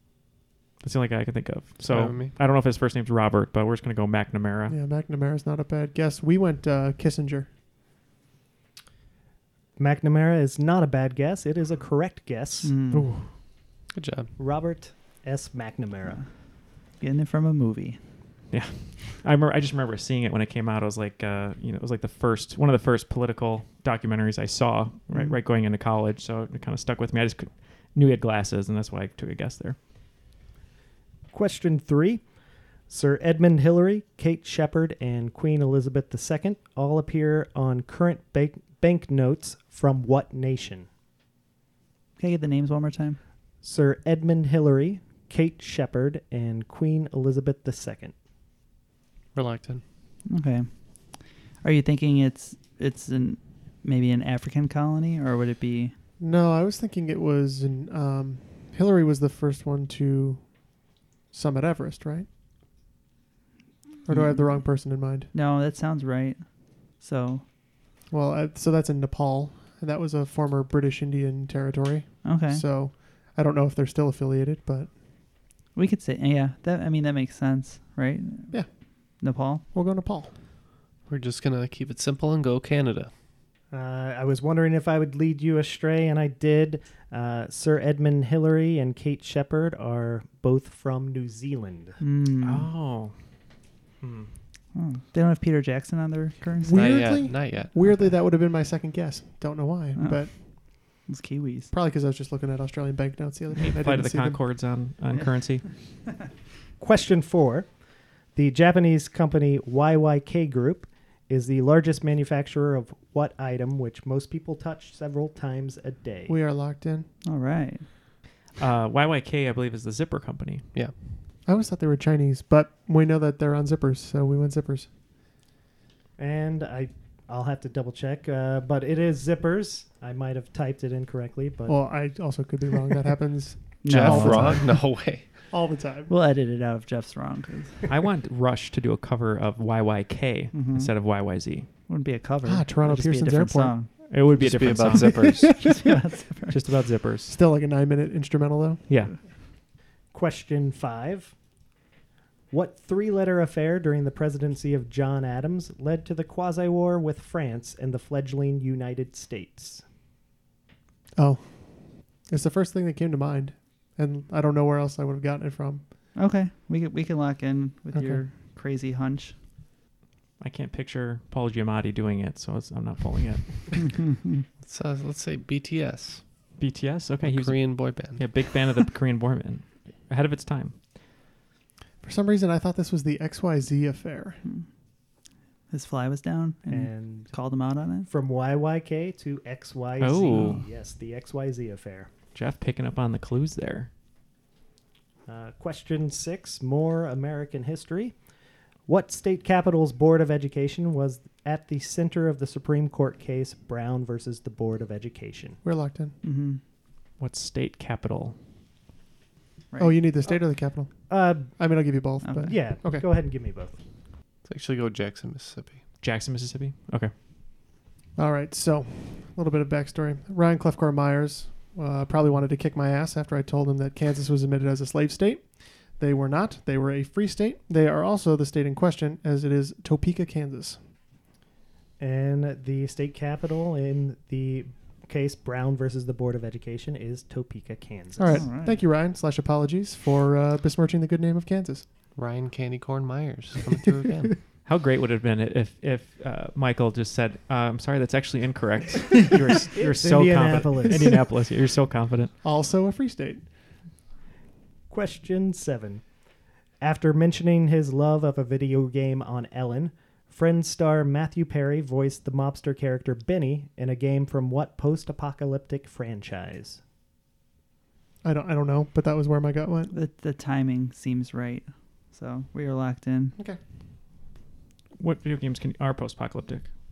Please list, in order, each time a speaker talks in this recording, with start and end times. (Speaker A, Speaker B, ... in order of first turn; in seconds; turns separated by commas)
Speaker A: 0.8-4.8, Speaker B: 1.8-2.4, Speaker C: 4.7-7.5, Speaker D: 9.8-12.7, Speaker E: 12.6-13.1, Speaker A: 12.9-13.3, Speaker B: 13.9-14.3, Speaker D: 14.4-16.2, Speaker E: 17.0-18.0, Speaker A: 18.5-29.8, Speaker E: 25.1-25.4, Speaker D: 31.3-32.2, Speaker D: 32.9-40.9, Speaker E: 42.2-43.2, Speaker D: 43.6-48.1, Speaker B: 49.3-49.8, Speaker E: 50.3-50.7, Speaker E: 51.6-55.9, Speaker C: 56.2-60.6, Speaker C: 61.3-62.3, Speaker C: 64.0-65.3, Speaker E: 64.1-67.4, Speaker C: 68.1-75.0, Speaker E: 72.2-72.6, Speaker E: 75.7-78.6, Speaker E: 79.2-79.6, Speaker C: 79.7-80.3, Speaker B: 81.1-83.1, Speaker D: 83.7-92.0, Speaker E: 92.0-92.7, Speaker A: 92.4-93.1, Speaker A: 94.0-94.3, Speaker E: 94.7-97.0, Speaker C: 96.6-100.5, Speaker B: 96.7-97.7, Speaker E: 100.0-101.7, Speaker C: 101.7-104.4, Speaker A: 103.6-105.7, Speaker D: 106.8-107.7, Speaker D: 108.3-116.4, Speaker C: 116.3-117.1, Speaker E: 117.2-117.8, Speaker A: 118.6-120.7, Speaker B: 120.7-121.2, Speaker C: 121.4-124.9, Speaker D: 126.2-131.8, Speaker C: 131.7-134.9, Speaker E: 133.8-134.6, Speaker B: 133.8-135.5, Speaker C: 135.5-136.1, Speaker E: 136.1-137.8, Speaker A: 137.9-141.7, Speaker E: 140.5-140.9, Speaker E: 141.9-143.9, Speaker C: 142.4-143.8, Speaker A: 144.1-145.6, Speaker B: 144.4-145.5, Speaker C: 145.3-145.8, Speaker E: 145.6-146.6, Speaker A: 146.5-147.3, Speaker C: 147.3-148.8, Speaker A: 148.9-149.2, Speaker D: 150.1-151.3, Speaker D: 152.5-159.8, Speaker C: 161.2-165.8, Speaker E: 166.1-169.3, Speaker C: 167.9-168.2, Speaker A: 170.4-173.9, Speaker E: 174.0-174.4, Speaker B: 174.6-176.2, Speaker A: 176.6-180.8, Speaker B: 177.2-178.2, Speaker C: 182.0-184.4, Speaker E: 185.7-188.1, Speaker D: 186.7-187.3, Speaker D: 188.1-192.1, Speaker A: 190.0-190.6, Speaker E: 190.2-190.6, Speaker A: 192.3-193.9, Speaker D: 195.3-198.1, Speaker D: 198.9-205.6, Speaker C: 205.6-206.1, Speaker E: 206.2-206.6, Speaker A: 207.2-208.3, Speaker E: 209.7-210.1, Speaker C: 209.8-213.0, Speaker D: 211.1-211.6, Speaker E: 212.2-212.5, Speaker D: 212.4-213.8, Speaker B: 214.4-215.8, Speaker A: 216.0-217.1, Speaker C: 218.2-230.8, Speaker D: 232.0-238.4, Speaker C: 238.2-241.8, Speaker E: 238.3-238.8, Speaker B: 242.1-244.3, Speaker A: 244.6-252.3, Speaker D: 249.7-251.2, Speaker C: 252.4-253.5, Speaker D: 254.9-256.0, Speaker D: 256.8-266.8, Speaker C: 268.2-269.9, Speaker E: 269.9-273.4, Speaker A: 275.0-276.7